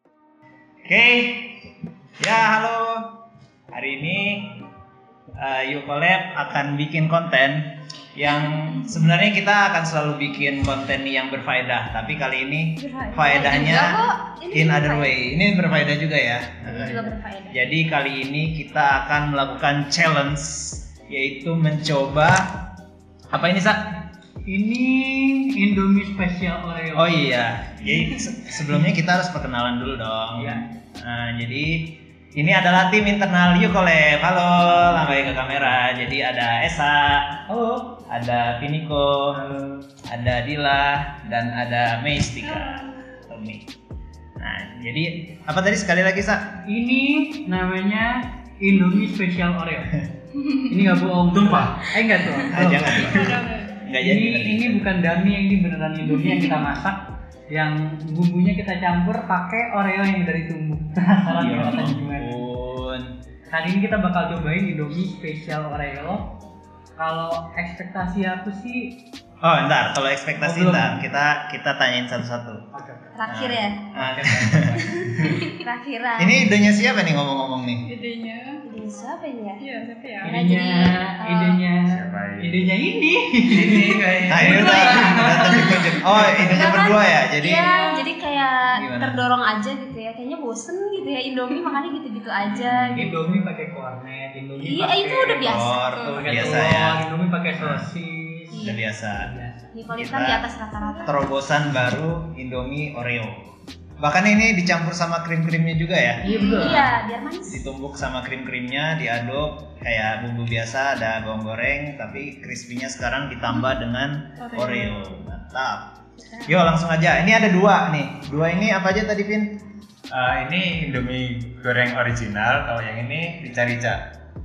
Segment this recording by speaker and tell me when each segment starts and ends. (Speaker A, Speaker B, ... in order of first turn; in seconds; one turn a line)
Speaker A: 0.9-1.6
Speaker A: 2.2-3.1
Speaker A: 3.7-4.6
Speaker A: 5.4-22.6
Speaker B: 12.8-15.1
Speaker B: 16.6-17.6
Speaker A: 23.3-23.9
Speaker C: 24.5-27.4
Speaker A: 26.9-37.3
Speaker C: 30.4-30.7
Speaker C: 34.9-35.8
Speaker C: 37.5-38.0
Speaker A: 38.1-39.4
Speaker A: 40.1-43.6
Speaker A: 44.4-46.6
Speaker C: 46.6-50.0
Speaker C: 50.5-53.4
Speaker A: 52.5-55.0
Speaker D: 52.9-53.8
Speaker C: 54.0-62.5
Speaker A: 61.4-63.1
Speaker C: 63.5-66.3
Speaker C: 67.0-69.0
Speaker A: 69.4-72.6
Speaker C: 70.4-71.0
Speaker C: 72.7-73.2
Speaker B: 73.1-73.8
Speaker A: 73.3-75.2
Speaker C: 73.9-75.4
Speaker B: 75.2-76.5
Speaker A: 76.2-77.9
Speaker D: 77.8-78.6
Speaker B: 78.6-79.6
Speaker D: 79.6-80.4
Speaker C: 80.2-86.7
Speaker B: 80.2-81.6
Speaker E: 81.9-82.7
Speaker A: 83.7-87.7
Speaker B: 84.4-85.8
Speaker B: 86.5-93.3
Speaker D: 87.6-88.1
Speaker A: 88.7-89.2
Speaker A: 92.4-93.1
Speaker C: 92.9-98.6
Speaker B: 94.6-95.7
Speaker A: 95.4-97.0
Speaker D: 95.9-96.6
Speaker A: 97.6-97.9
Speaker B: 98.5-98.8
Speaker A: 98.6-99.3
Speaker C: 99.2-99.6
Speaker B: 99.7-101.2
Speaker A: 99.9-100.5
Speaker D: 100.8-101.1
Speaker A: 101.0-103.4
Speaker A: 104.0-106.8
Speaker D: 106.2-106.8
Speaker C: 106.3-106.9
Speaker B: 106.3-107.6
Speaker A: 107.5-115.9
Speaker D: 114.4-114.9
Speaker A: 116.5-119.6
Speaker E: 120.1-123.9
Speaker A: 120.3-121.7
Speaker A: 122.7-124.0